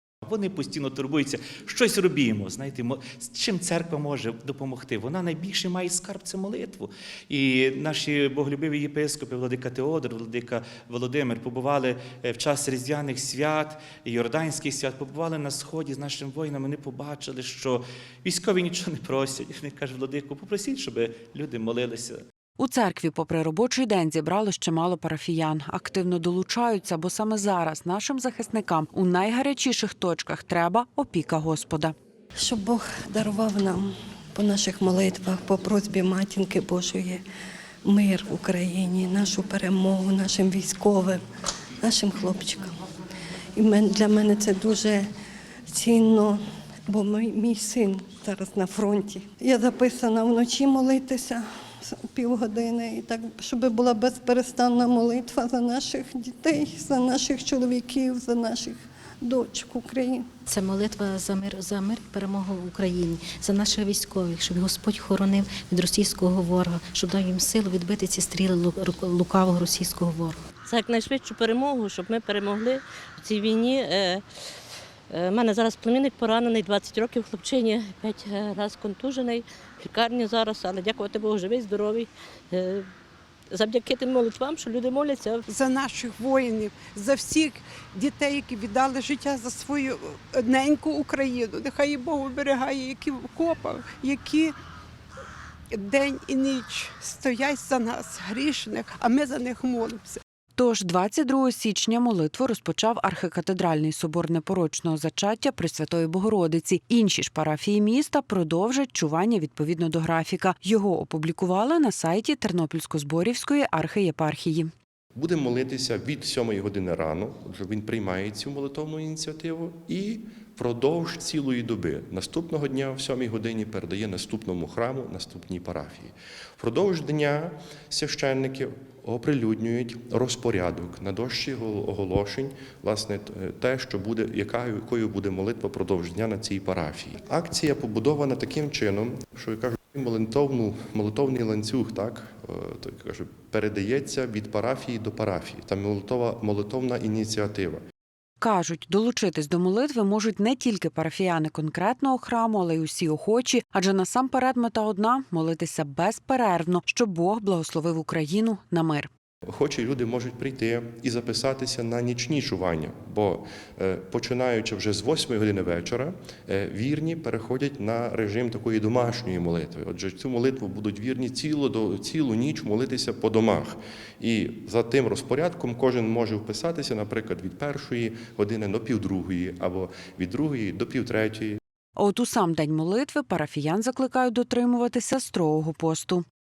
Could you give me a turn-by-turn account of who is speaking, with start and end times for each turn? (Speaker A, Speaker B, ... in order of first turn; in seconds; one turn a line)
Speaker A: 0.2-22.2
Speaker B: 22.6-31.9
Speaker C: 32.4-37.2
Speaker C: 37.8-41.2
Speaker C: 41.8-42.7
Speaker C: 43.5-45.0
Speaker C: 45.7-60.2
Speaker D: 60.5-70.4
Speaker E: 70.7-74.2
Speaker E: 75.1-82.8
Speaker E: 83.5-85.4
Speaker F: 85.5-94.5
Speaker F: 95.7-100.2
Speaker B: 100.5-114.7
Speaker G: 115.1-147.8
Speaker B: 148.4-159.1
Speaker G: 159.5-181.6
Speaker B: 182.0-186.2